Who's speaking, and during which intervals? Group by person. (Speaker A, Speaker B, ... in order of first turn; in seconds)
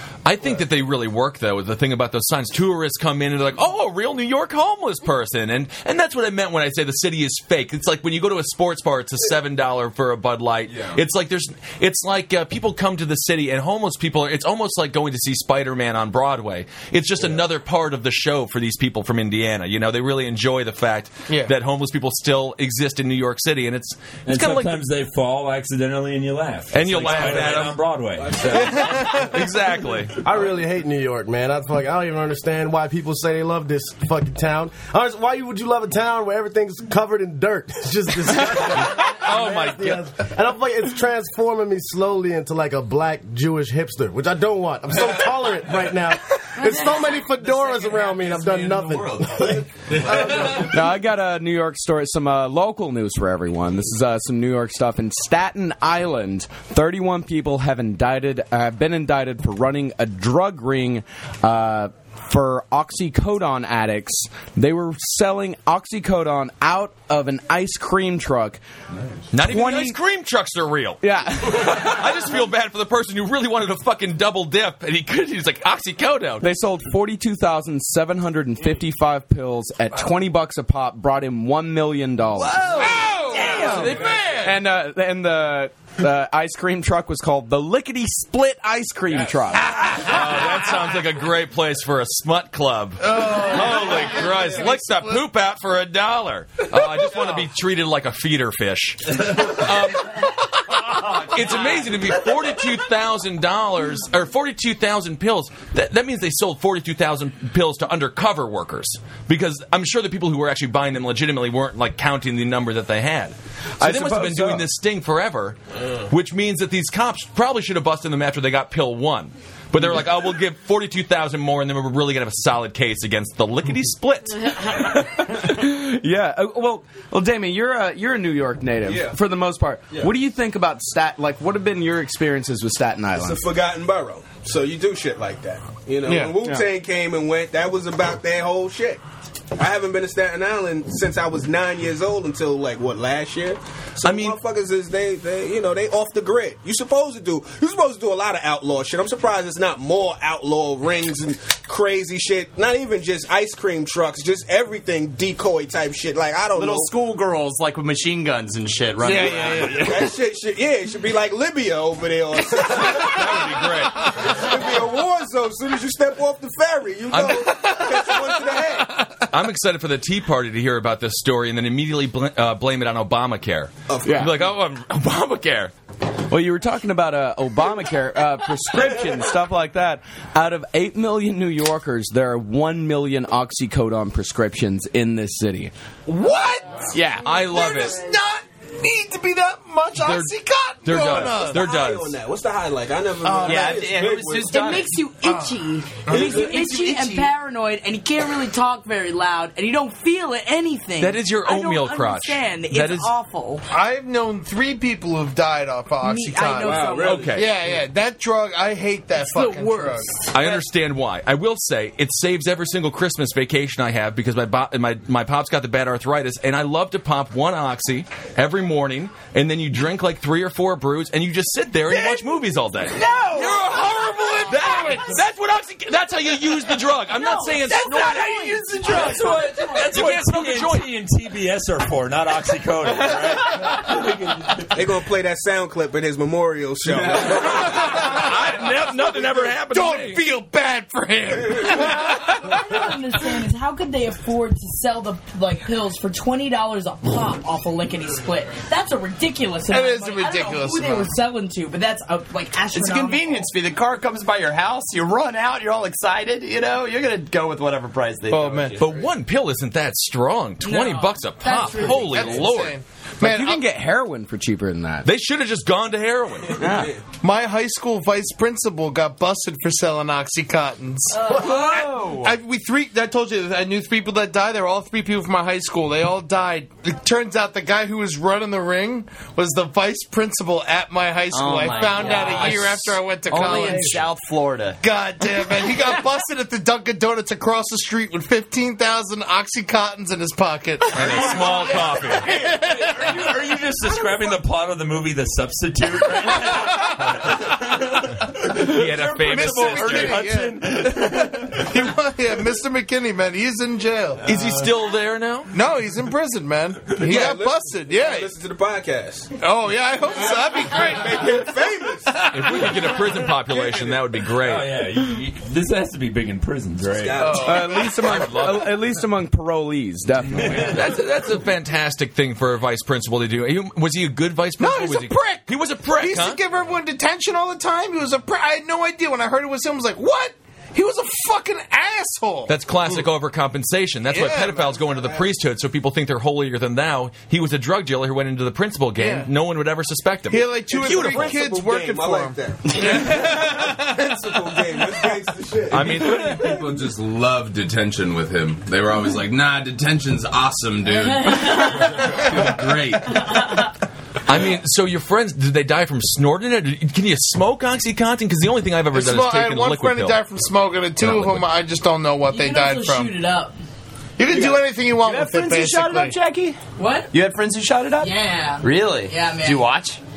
Speaker A: 0.2-24.8, 26.7-27.8, 29.1-30.2, 38.3-40.1, 69.3-76.5, 82.4-84.5, 89.9-124.8, 144.0-144.4, 162.8-164.2, 167.1-167.4, 169.3-175.7, 187.2-188.0, 190.8-192.2, 201.0-203.1, 207.0-207.5, 210.3-228.8, 229.7-230.9, 237.6-240.2, 258.8-262.8, 265.0-266.7, 290.9-292.3, 298.5-300.2, 304.2-305.5, 312.3-314.8, 317.8-318.8, 320.5-326.4, 332.5-341.4, 345.7-346.6, 354.2-360.2, 361.0-361.4
Speaker B: 10.7-11.0, 47.4-50.7, 345.7-353.2
Speaker C: 24.2-29.1, 228.8-234.7, 292.5-301.8, 304.2-304.7, 314.4-317.4
Speaker D: 28.4-29.4, 82.7-84.5, 93.0-95.2, 136.1-136.5, 159.0-160.1, 167.7-168.2, 186.1-191.7, 195.2-195.5, 196.1-196.4, 203.7-210.6, 223.3-225.1, 237.4-238.6, 239.7-242.9, 249.7-251.1, 258.3-258.8, 261.8-263.6, 267.2-284.1, 284.8-293.3, 296.3-304.2, 305.5-308.3, 309.4-313.2, 317.1-317.9, 324.6-332.5, 334.1-334.8, 339.0-339.3, 340.3-344.5, 358.9-363.1, 364.2-366.1
Speaker E: 30.2-50.8
Speaker F: 50.5-68.6, 69.4-70.0, 71.0-71.9, 76.4-89.8, 113.8-114.7, 124.7-133.4, 174.0-174.4, 176.3-185.7, 186.9-187.4, 263.2-265.1, 266.6-266.9, 317.3-320.9
Speaker G: 128.8-129.2, 133.1-139.0, 139.6-156.9, 159.1-169.0, 173.9-174.3, 191.2-194.6, 206.6-207.2, 234.7-238.0, 292.3-292.6, 306.9-309.3, 310.2-312.2, 317.0-317.9, 334.8-335.2, 340.7-346.3
Speaker H: 156.5-159.9, 193.2-194.9, 196.1-197.3, 223.0-223.5, 227.7-229.4, 252.7-259.1, 271.3-272.4, 281.3-284.8, 364.3-366.6, 367.1-370.0
Speaker I: 194.5-203.6, 206.0-207.4, 209.2-210.3, 223.2-223.9, 224.6-225.0, 227.1-227.7, 241.6-253.5, 260.6-262.4, 271.1-271.6, 350.9-352.2, 353.1-353.6, 362.3-363.6, 366.8-367.1, 368.0-369.7